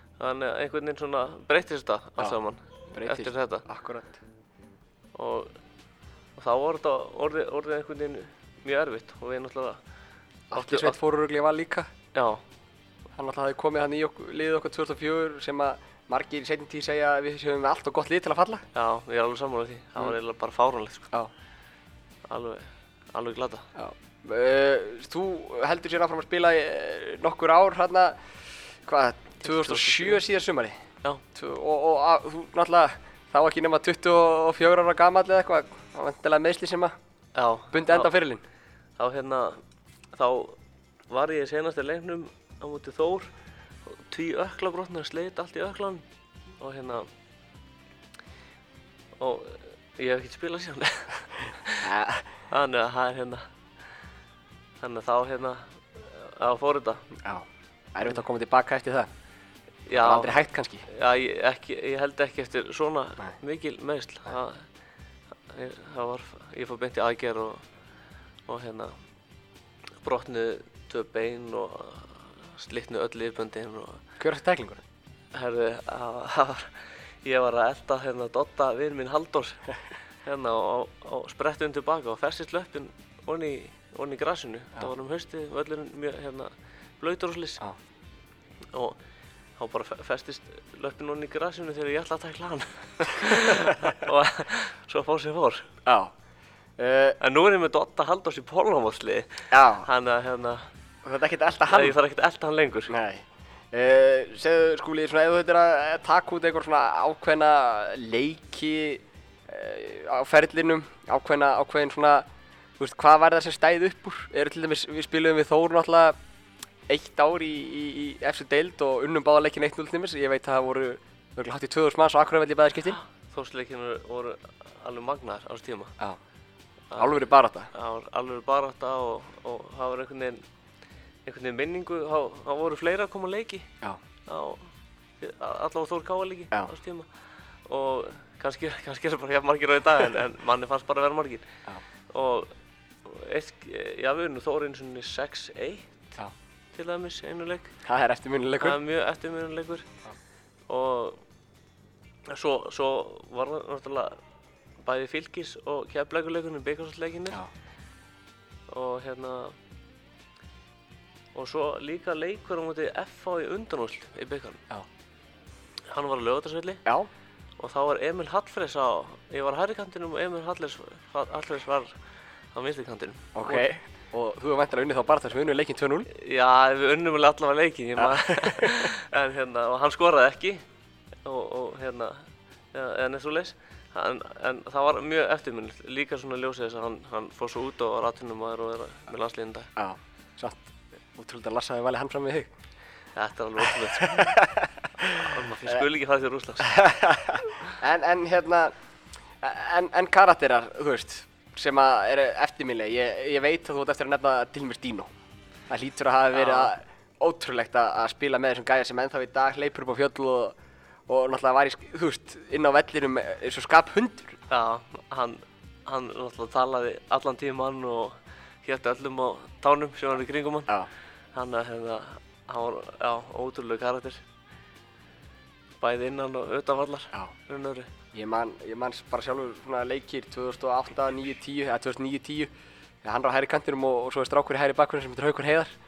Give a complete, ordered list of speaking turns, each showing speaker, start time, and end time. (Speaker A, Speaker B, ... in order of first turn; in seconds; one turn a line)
Speaker A: 0.2-3.6
Speaker B: 2.9-4.2
Speaker A: 5.1-5.5
Speaker A: 6.4-9.8
Speaker B: 10.5-11.9
Speaker A: 10.5-10.9
Speaker A: 12.1-12.4
Speaker B: 13.2-18.6
Speaker A: 18.7-21.1
Speaker A: 22.3-23.7
Speaker B: 23.8-28.2
Speaker B: 28.8-30.8
Speaker A: 29.5-30.2
Speaker B: 31.3-36.9
Speaker A: 37.3-38.1
Speaker B: 37.7-38.4
Speaker A: 39.0-39.6
Speaker A: 40.1-40.6
Speaker A: 41.1-43.3
Speaker A: 43.9-46.0
Speaker A: 46.6-47.1
Speaker A: 49.2-51.8
Speaker B: 51.8-52.3
Speaker A: 52.5-53.5
Speaker A: 54.8-57.0
Speaker B: 57.2-59.1
Speaker A: 59.9-64.6
Speaker B: 60.0-60.8
Speaker A: 65.5-67.6
Speaker A: 68.5-69.0
Speaker A: 70.0-74.0
Speaker B: 74.2-74.8
Speaker A: 75.3-79.7
Speaker A: 80.2-87.6
Speaker A: 88.7-89.0
Speaker A: 89.6-95.7
Speaker B: 93.5-93.9
Speaker B: 95.8-96.1
Speaker B: 96.8-97.2
Speaker A: 97.2-100.7
Speaker B: 99.5-99.9
Speaker B: 101.0-102.0
Speaker A: 101.7-102.9
Speaker B: 102.9-112.2
Speaker B: 112.8-116.2
Speaker B: 116.9-123.0
Speaker A: 123.0-125.9
Speaker B: 127.0-127.7
Speaker A: 127.7-130.4
Speaker A: 131.2-133.7
Speaker A: 134.3-137.1
Speaker A: 137.7-141.4
Speaker A: 142.1-142.5
Speaker A: 143.0-145.9
Speaker A: 146.7-147.7
Speaker B: 147.8-148.8
Speaker A: 148.6-149.9
Speaker A: 150.7-151.2
Speaker A: 152.3-154.2
Speaker A: 154.8-157.4
Speaker A: 158.7-159.6
Speaker A: 161.3-164.6
Speaker A: 165.9-166.8
Speaker A: 167.6-171.9
Speaker A: 172.5-173.7
Speaker B: 173.3-176.1
Speaker A: 176.1-180.6
Speaker B: 178.0-178.7
Speaker A: 181.2-189.7
Speaker B: 189.8-192.5
Speaker A: 193.1-194.4
Speaker B: 193.9-195.8
Speaker A: 195.2-196.7
Speaker B: 196.6-198.7
Speaker B: 199.4-205.1
Speaker B: 205.7-210.5
Speaker A: 206.3-206.7
Speaker B: 211.1-214.4
Speaker A: 214.5-220.7
Speaker A: 221.3-224.2
Speaker A: 225.8-227.9
Speaker B: 228.1-232.5
Speaker B: 233.0-235.7